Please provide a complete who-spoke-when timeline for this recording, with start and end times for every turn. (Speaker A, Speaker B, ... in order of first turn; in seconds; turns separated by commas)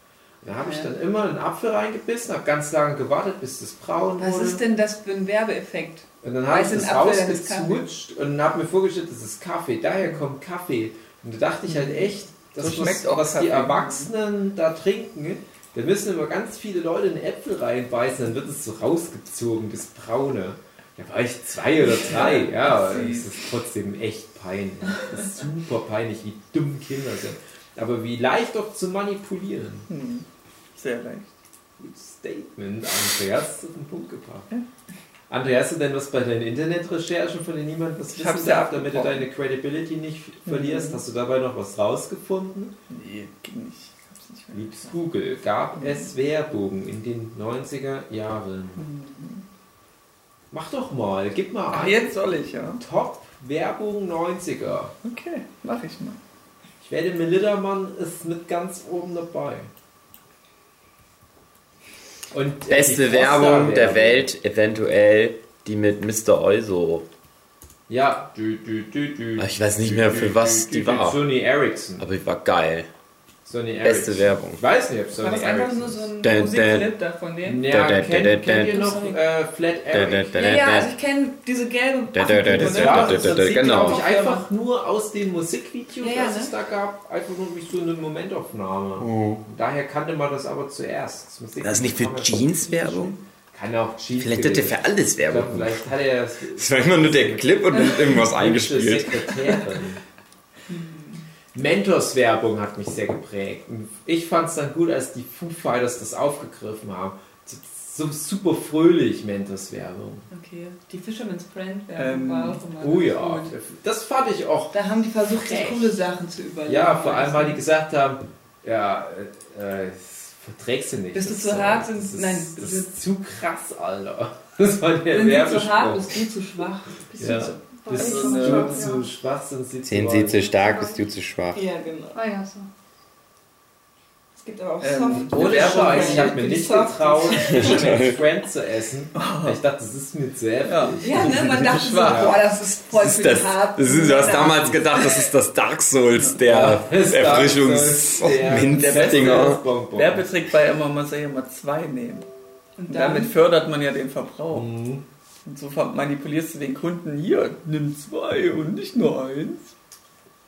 Speaker A: 0.4-4.6, Speaker B: 0.6-0.9, Speaker B: 4.2-7.8, Speaker A: 6.2-29.9, Speaker C: 11.7-14.1, Speaker C: 21.8-23.4, Speaker C: 29.9-31.3, Speaker A: 31.8-34.5, Speaker A: 35.3-42.7, Speaker C: 38.1-39.3, Speaker C: 40.5-41.0, Speaker C: 42.9-44.9, Speaker A: 44.5-48.8, Speaker C: 45.8-46.1, Speaker C: 48.8-49.4, Speaker A: 50.5-52.2, Speaker C: 51.7-52.8, Speaker A: 52.8-54.9, Speaker C: 55.0-56.2, Speaker A: 56.8-59.7, Speaker A: 62.3-64.3, Speaker D: 62.7-67.0, Speaker A: 67.9-72.1, Speaker D: 69.4-71.2, Speaker D: 72.0-72.9, Speaker A: 73.5-76.1, Speaker D: 73.8-74.6, Speaker B: 75.2-77.7, Speaker D: 76.2-76.9, Speaker A: 77.4-80.8, Speaker D: 77.7-78.9, Speaker B: 78.7-79.2, Speaker D: 79.9-80.9, Speaker B: 80.3-84.5, Speaker D: 82.1-84.0, Speaker A: 82.4-100.0, Speaker B: 86.0-86.5, Speaker D: 89.0-89.4, Speaker D: 91.6-93.1, Speaker D: 94.2-95.8, Speaker D: 96.5-99.3, Speaker B: 100.7-101.2, Speaker A: 101.5-110.3, Speaker B: 110.3-113.5, Speaker C: 112.0-112.6, Speaker A: 112.8-114.8, Speaker B: 114.7-117.6, Speaker A: 115.3-115.9, Speaker A: 116.7-126.2, Speaker B: 121.1-122.9, Speaker B: 125.1-127.4, Speaker E: 127.1-129.1, Speaker A: 127.2-130.5, Speaker C: 127.9-128.9, Speaker D: 129.9-131.6, Speaker E: 130.3-131.1, Speaker B: 131.5-132.2, Speaker E: 132.1-132.7, Speaker B: 134.3-137.9, Speaker C: 134.8-136.4, Speaker A: 135.1-142.4, Speaker D: 137.5-138.2, Speaker C: 139.2-139.6, Speaker C: 140.6-142.4, Speaker B: 141.0-145.2, Speaker D: 142.9-149.6, Speaker A: 146.4-150.3, Speaker C: 148.6-152.3, Speaker B: 152.8-153.3, Speaker C: 152.9-154.7, Speaker A: 154.5-155.0, Speaker C: 155.4-159.7